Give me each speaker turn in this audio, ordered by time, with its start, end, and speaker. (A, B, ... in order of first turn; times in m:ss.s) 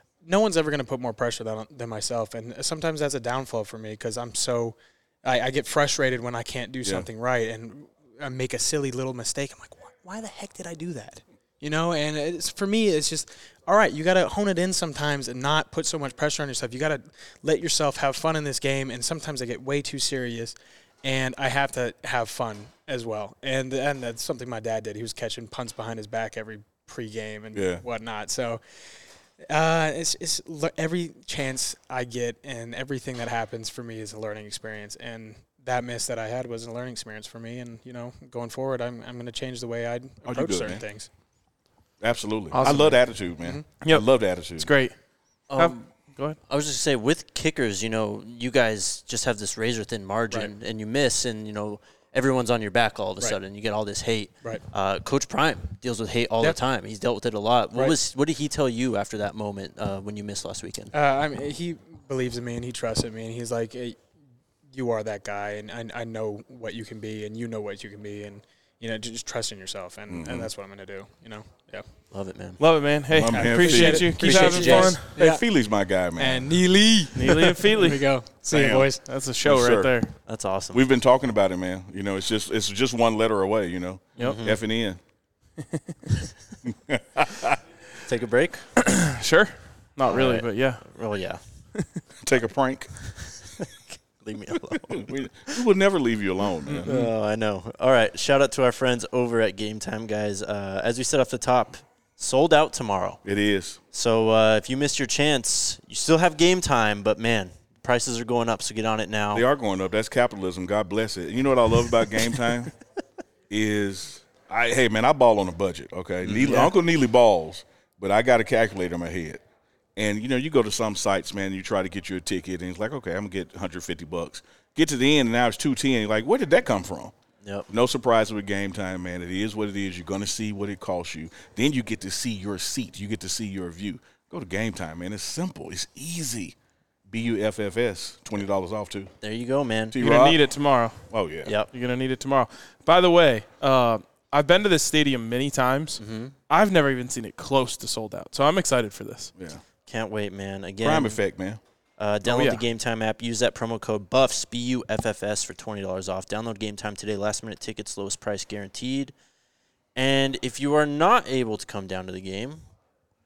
0:00.2-0:28.6 A
0:27.5-0:27.8 B
0:29.5-0:41.1 A
0:40.2-0:40.8 B
0:42.0-0:44.7 B
0:42.5-0:43.0 C
0:42.6-0:43.6 A
0:43.8-0:44.9 C
0:45.5-0:45.9 D
0:45.6-0:46.4 C
0:46.5-1:00.9 D
1:00.9-1:04.0 A
1:04.7-1:11.8 A
1:10.1-1:10.5 B
1:12.1-1:12.6 D
1:12.6-1:15.1 C
1:13.1-1:16.6 B
1:13.3-1:15.5 A
1:14.2-1:14.9 D
1:16.2-1:19.0 A
1:17.1-1:18.0 C
1:18.5-1:20.0 B
1:19.0-1:20.1 C
1:20.2-1:20.8 D
1:20.7-1:25.0 B
1:24.2-1:24.6 D
1:26.6-1:27.6 B
1:28.0-1:28.7 D
1:28.8-1:30.8 C
1:30.1-1:31.4 D
1:32.2-1:33.2 B
1:33.4-1:35.6 D
1:34.7-1:37.1 B
1:36.7-1:43.2 D
1:43.2-1:43.8 B
1:43.9-1:49.4 D
1:49.3-1:52.7 B
1:53.5-1:59.4 B
1:56.2-1:56.7 D
2:00.0-2:07.1 B
2:07.4-2:07.7 D
2:07.7-2:16.5 B
2:17.1-2:19.1 B
2:19.2-2:20.0 D
2:19.9-2:20.4 B
2:20.0-2:21.0 C
2:21.1-2:21.5 B
2:21.4-2:21.7 D
2:21.7-2:29.3 C
2:26.0-2:26.3 D
2:29.8-2:31.2 D
2:30.8-2:31.6 B
2:32.0-2:39.1 D
2:32.2-2:32.6 C
2:40.0-2:42.6 D